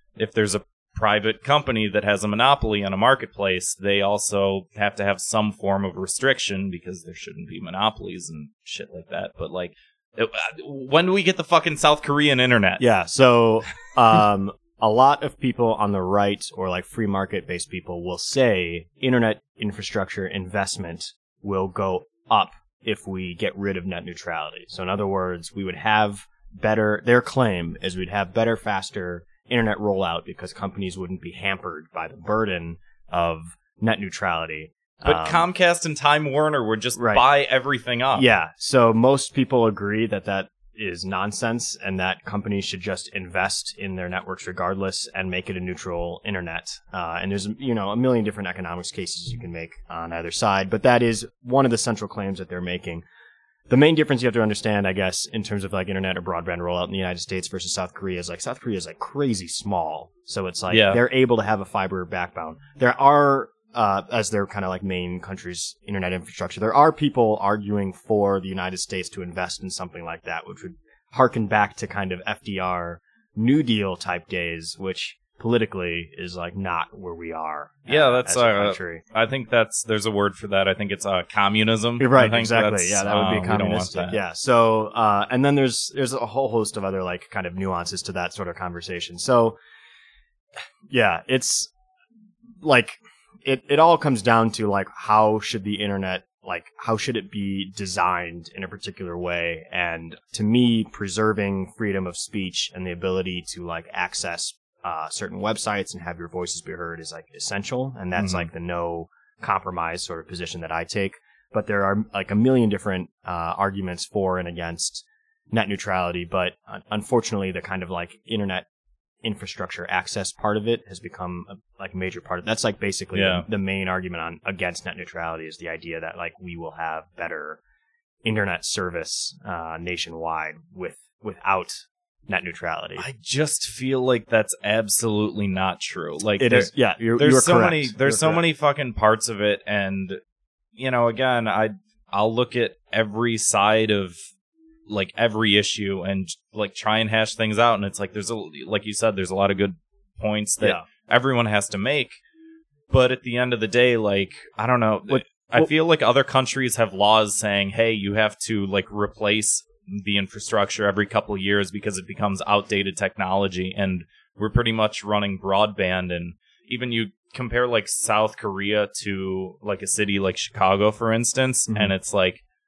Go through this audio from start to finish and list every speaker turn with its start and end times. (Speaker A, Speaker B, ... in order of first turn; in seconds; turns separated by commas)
Speaker A: 0.2-12.8, Speaker B: 12.8-35.5, Speaker A: 35.0-38.3, Speaker B: 36.9-37.2, Speaker B: 38.1-53.0, Speaker B: 53.7-79.0, Speaker A: 60.7-61.0, Speaker A: 77.9-84.2, Speaker B: 82.0-89.6, Speaker B: 90.9-91.7, Speaker B: 92.6-118.7, Speaker A: 108.2-108.5, Speaker B: 119.2-127.6, Speaker A: 123.1-123.5, Speaker B: 128.2-133.0, Speaker A: 133.0-140.2, Speaker B: 136.4-138.4, Speaker A: 140.8-144.2, Speaker A: 144.9-152.2, Speaker A: 152.9-172.4, Speaker B: 155.1-155.7, Speaker B: 171.7-171.9